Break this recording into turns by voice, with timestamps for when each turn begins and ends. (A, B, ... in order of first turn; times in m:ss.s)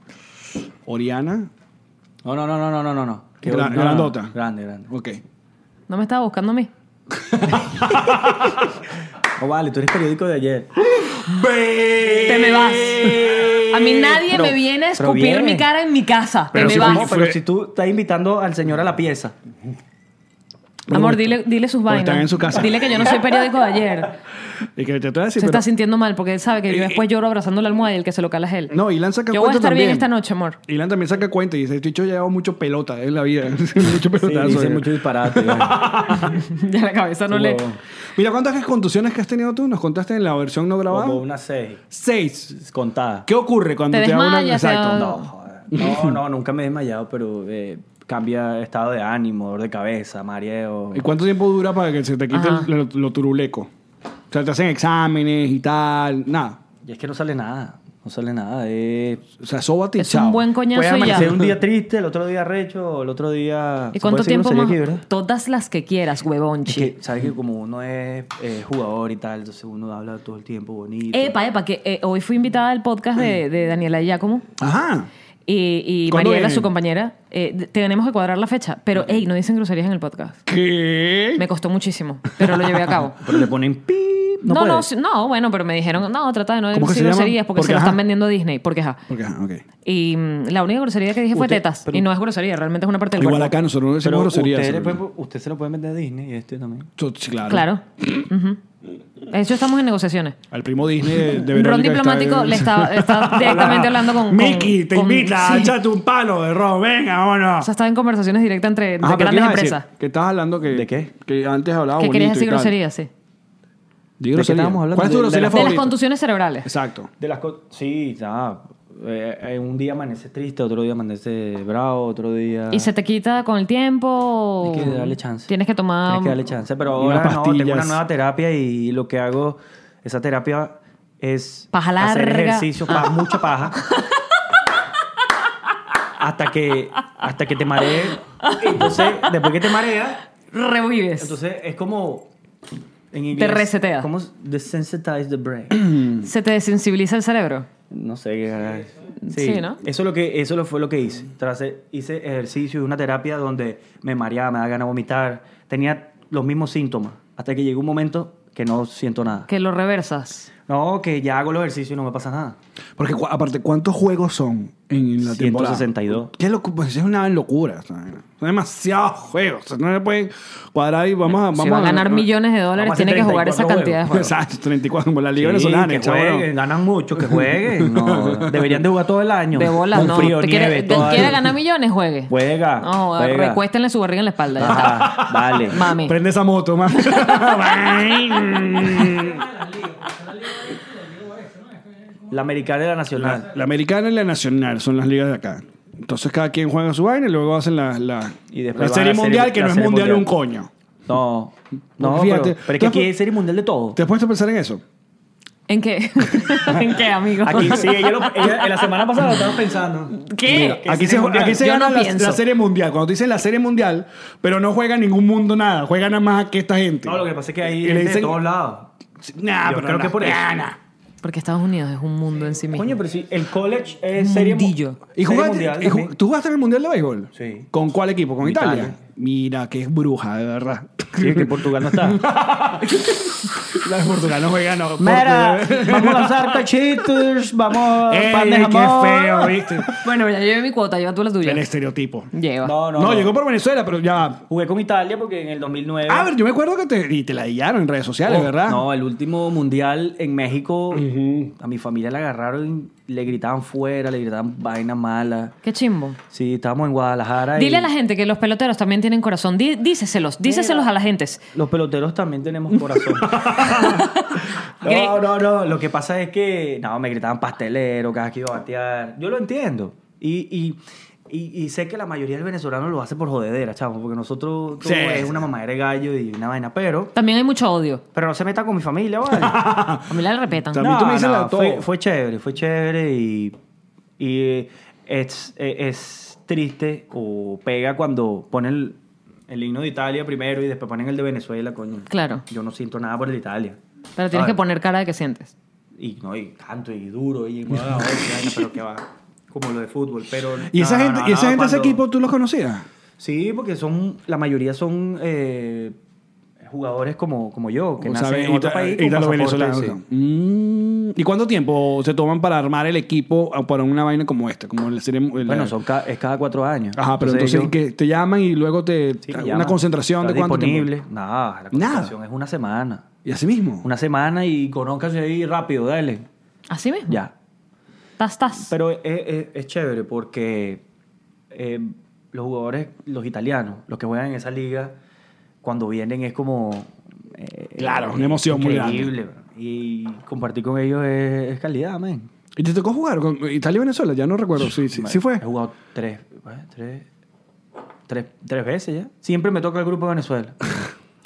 0:00.9-0:01.5 A
0:02.2-0:04.9 B
0:03.5-0:04.3 A
0:04.9-0:05.2 A
0:05.9-0:06.7 C
0:07.3-0:08.7 A
0:09.4-0:10.7 B
0:10.8-0:14.0 A
0:12.2-0:17.1 C
0:13.2-0:13.6 B
0:14.2-0:15.7 B
0:16.5-0:17.4 A
0:16.5-0:19.4 B
0:20.9-0:23.2 A
0:20.9-0:24.1 C
0:24.8-0:25.6 A
0:25.4-0:28.8 C
0:26.7-0:27.0 A
0:28.7-0:30.1 A
0:29.3-0:30.6 C
0:30.7-0:36.4 A
0:34.2-0:35.9 B
0:36.2-0:37.6 C
0:37.3-0:37.8 B
0:38.2-0:41.2 A
0:40.9-0:41.8 B
0:41.9-0:42.6 A
0:42.5-0:43.3 B
0:43.3-0:45.1 A
0:43.9-0:45.3 C
0:44.9-0:51.1 B
0:45.7-0:46.2 A
0:50.9-0:53.7 A
0:52.3-0:52.7 C
0:54.3-0:56.6 A
0:56.8-0:59.2 B
0:59.4-1:00.5 A
1:00.0-1:01.5 C
1:00.7-1:05.0 B
1:04.0-1:06.9 C
1:06.7-1:11.4 B
1:11.1-1:14.4 C
1:14.6-1:15.1 A
1:15.5-1:20.4 C
1:16.1-1:16.7 A
1:20.5-1:21.5 A
1:21.4-1:23.2 C
1:22.4-1:23.0 A
1:23.2-1:24.9 B
1:24.5-1:29.0 C
1:26.7-1:28.0 A
1:29.1-1:29.6 A
1:29.8-1:33.6 C
1:31.3-1:32.0 B
1:33.2-1:35.0 A
1:34.0-1:36.9 B
1:37.0-1:38.3 A
1:37.5-1:38.6 C
1:39.3-1:40.4 C
1:40.5-1:47.7 A
1:41.2-1:45.8 C
1:47.6-1:49.8 C
1:49.0-1:52.8 A
1:50.7-1:51.1 B
1:52.0-1:53.1 C
1:54.2-1:56.0 A
1:54.3-1:55.8 B
1:55.5-1:56.7 C
1:56.6-1:57.1 A
1:57.2-2:02.9 B
2:02.7-2:06.4 C
2:04.6-2:05.5 B
2:06.1-2:13.8 B
2:06.9-2:08.0 A
2:11.7-2:13.2 C
2:16.2-2:20.2 B
2:18.4-2:19.5 C
2:20.5-2:21.4 C
2:21.2-2:22.3 B
2:23.1-2:25.9 B
2:23.4-2:24.1 C
2:26.1-2:27.7 C
2:27.9-2:39.5 B
2:29.3-2:29.8 C
2:39.5-2:40.5 C
2:40.7-2:42.6 B
2:43.0-2:52.3 A
2:45.2-2:46.3 B
2:51.4-2:54.3 C
2:52.8-2:54.0 B
2:54.1-2:56.5 A
2:55.4-3:01.4 B
2:57.2-2:58.8 A
2:59.5-3:06.2 C
3:02.3-3:03.6 B
3:04.6-3:05.8 B
3:04.6-3:09.7 A
3:07.1-3:07.6 C
3:12.3-3:13.5 B
3:13.2-3:20.7 A
3:18.5-3:20.3 B
3:21.1-3:24.0 B
3:22.0-3:23.2 A
3:24.0-3:24.8 A
3:25.7-3:29.2 C
3:26.5-3:26.8 A
3:27.4-3:31.6 B
3:27.6-3:27.8 A
3:30.2-3:30.8 C
3:30.5-3:37.3 A
3:31.4-3:32.4 C
3:37.0-3:38.9 B
3:37.8-3:38.4 A
3:39.2-3:40.8 A
3:39.6-3:40.5 B
3:41.2-3:43.0 C
3:42.7-3:46.1 B
3:44.2-3:45.0 C
3:45.2-3:57.2 A
3:47.3-3:47.7 B
3:48.4-3:49.0 B
3:51.2-3:52.2 B
3:55.0-3:59.6 B
3:57.9-4:00.0 A
4:00.0-4:01.6 C
4:01.4-4:02.3 A
4:02.3-4:02.7 C
4:02.6-4:03.4 B
4:02.9-4:04.4 A
4:04.5-4:06.3 B
4:06.1-4:08.9 A
4:08.2-4:15.6 B
4:10.9-4:11.5 A
4:15.6-4:16.2 C
4:16.3-4:17.9 B
4:17.6-4:21.4 C
4:20.4-4:20.9 B
4:21.5-4:23.8 B
4:23.2-4:24.1 A
4:23.7-4:25.1 C
4:24.8-4:37.1 B
4:34.8-4:35.4 A
4:37.2-4:38.0 C
4:38.1-4:39.7 B
4:39.3-4:40.2 A
4:40.1-4:40.8 C
4:40.7-4:41.9 A
4:40.8-4:43.6 B
4:44.2-4:53.8 B
4:52.1-4:52.4 C
4:54.2-4:55.5 C
4:54.3-4:54.6 B
4:56.0-5:02.0 B
5:00.7-5:02.9 A
5:03.2-5:06.0 B
5:06.6-5:10.0 B
5:08.0-5:15.8 A
5:15.5-5:17.7 B
5:17.0-5:20.9 A
5:19.2-5:23.1 B
5:21.7-5:22.1 A
5:23.2-5:23.9 A
5:23.8-5:26.3 B
5:26.7-5:27.2 C
5:27.1-5:27.3 B
5:28.2-5:28.7 C
5:28.6-5:30.8 B
5:31.5-5:35.0 B
5:35.6-5:42.3 B
5:37.8-5:39.2 A
5:42.6-5:45.4 A
5:44.7-5:47.1 B
5:48.1-5:50.6 B